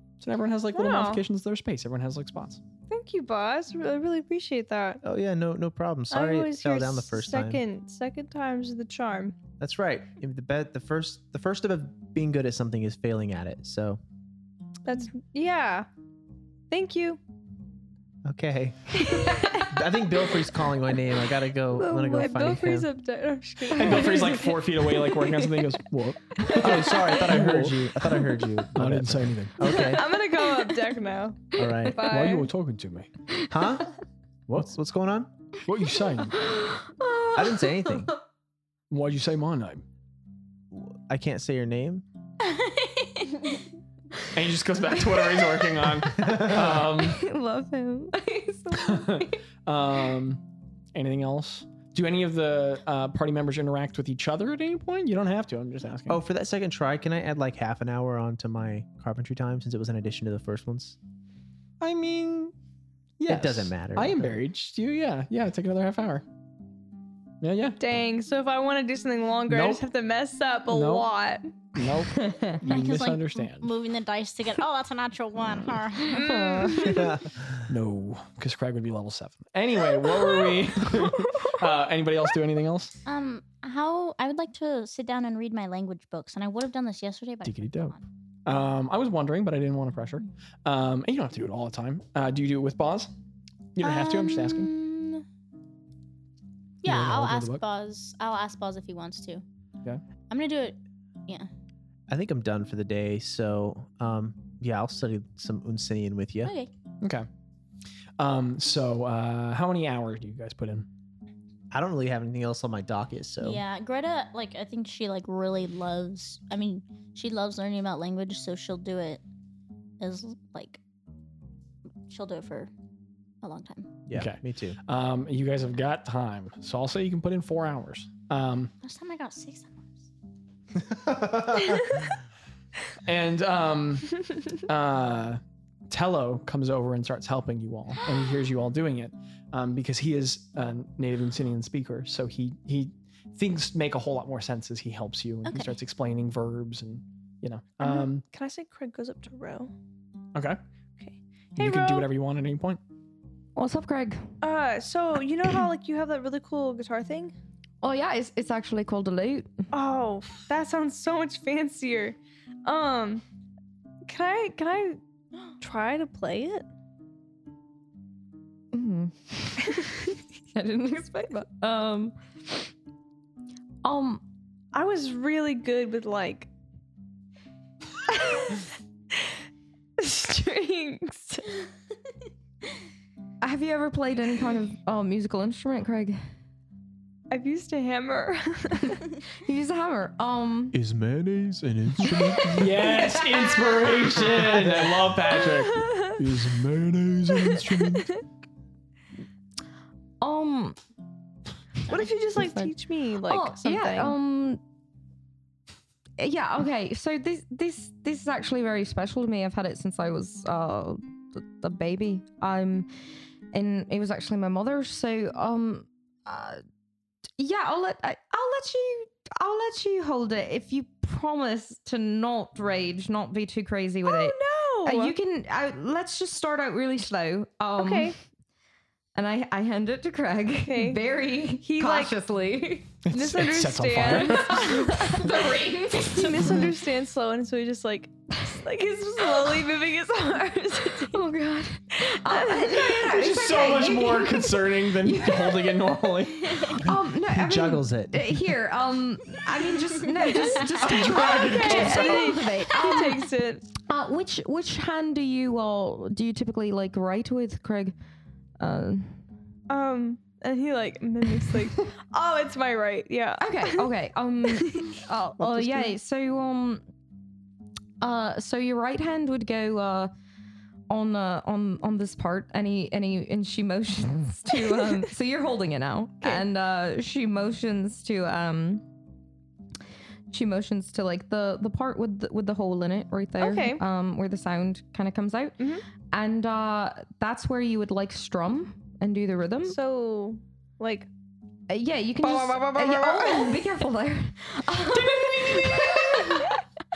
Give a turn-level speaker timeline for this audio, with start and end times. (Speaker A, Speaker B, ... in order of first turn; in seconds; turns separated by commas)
Speaker A: 0.2-2.6, Speaker B: 0.7-1.2, Speaker B: 2.9-5.0, Speaker C: 5.0-7.6, Speaker B: 6.1-9.4, Speaker C: 9.6-14.0, Speaker B: 14.8-15.9, Speaker B: 16.7-17.2, Speaker C: 18.2-22.9, Speaker B: 19.0-19.7, Speaker B: 21.7-25.6, Speaker A: 23.7-28.1, Speaker B: 26.4-27.1, Speaker C: 26.5-30.1, Speaker A: 28.7-29.8, Speaker B: 29.6-32.5, Speaker C: 31.6-32.0, Speaker A: 32.0-33.1, Speaker C: 33.5-33.9, Speaker C: 34.5-35.3, Speaker A: 35.6-36.4, Speaker D: 36.2-38.0, Speaker C: 37.3-38.1, Speaker A: 38.9-39.8, Speaker C: 40.7-42.0, Speaker E: 42.4-43.5, Speaker A: 44.3-47.2, Speaker C: 46.1-46.8, Speaker D: 46.9-49.4, Speaker A: 48.7-50.4, Speaker A: 50.9-56.2, Speaker C: 56.1-61.0, Speaker A: 61.8-62.5, Speaker A: 63.2-66.2, Speaker C: 63.3-64.3, Speaker A: 67.4-67.8, Speaker B: 67.8-71.6, Speaker A: 69.5-69.8, Speaker A: 70.7-71.1, Speaker A: 71.7-73.7, Speaker D: 72.1-72.6, Speaker E: 72.6-77.0, Speaker D: 76.1-77.1, Speaker B: 76.1-77.1, Speaker A: 77.7-83.0, Speaker E: 83.0-88.0, Speaker A: 87.4-87.9, Speaker A: 88.5-93.1, Speaker A: 93.8-94.7, Speaker E: 93.8-95.2, Speaker E: 96.8-99.4, Speaker A: 96.8-97.6, Speaker E: 100.3-101.5, Speaker C: 102.1-106.5, Speaker E: 106.4-106.7, Speaker A: 107.0-107.3, Speaker A: 108.2-110.9, Speaker C: 111.7-113.6, Speaker E: 113.4-119.2, Speaker E: 120.0-120.8, Speaker E: 122.1-122.7, Speaker E: 123.4-123.9, Speaker C: 124.1-124.8, Speaker A: 124.1-128.7, Speaker E: 128.8-130.0, Speaker C: 130.7-131.8, Speaker A: 133.0-148.2, Speaker B: 147.8-149.7, Speaker B: 151.0-152.1, Speaker A: 151.6-152.8, Speaker D: 153.6-154.3, Speaker B: 154.4-157.3, Speaker D: 157.8-159.6, Speaker B: 159.7-163.2, Speaker B: 164.1-165.0, Speaker B: 165.6-166.7, Speaker D: 168.7-172.2, Speaker D: 173.8-174.2, Speaker B: 174.7-176.5, Speaker B: 178.1-179.3, Speaker B: 180.0-181.6, Speaker D: 183.4-186.2, Speaker B: 187.3-189.0, Speaker D: 189.4-190.8, Speaker C: 190.7-193.0, Speaker A: 192.0-198.2, Speaker D: 192.0-192.6, Speaker B: 193.1-194.0, Speaker C: 194.3-194.8, Speaker B: 195.4-196.2, Speaker B: 197.3-198.2, Speaker D: 200.2-200.8, Speaker B: 201.9-204.2, Speaker D: 201.9-202.7, Speaker D: 203.2-204.6, Speaker D: 206.2-212.9, Speaker D: 213.5-216.6, Speaker D: 217.4-228.1, Speaker B: 224.1-225.1, Speaker B: 227.8-228.2, Speaker D: 229.1-233.0, Speaker B: 230.6-231.0, Speaker B: 231.6-232.2, Speaker A: 233.1-234.7, Speaker B: 233.1-241.2, Speaker D: 234.1-236.6, Speaker D: 241.1-246.0, Speaker B: 242.0-243.1, Speaker A: 243.0-246.8, Speaker D: 246.6-257.9, Speaker C: 246.8-248.6, Speaker A: 250.8-252.3, Speaker B: 251.2-253.7, Speaker D: 258.6-259.2, Speaker B: 259.7-263.9, Speaker D: 263.4-266.8, Speaker B: 264.5-264.9, Speaker D: 268.0-270.1, Speaker D: 270.9-278.8, Speaker D: 280.3-285.6, Speaker B: 283.4-283.8, Speaker B: 285.6-285.8, Speaker D: 286.1-289.8, Speaker B: 289.7-291.1, Speaker D: 291.7-296.6, Speaker B: 292.2-293.7, Speaker B: 295.1-296.2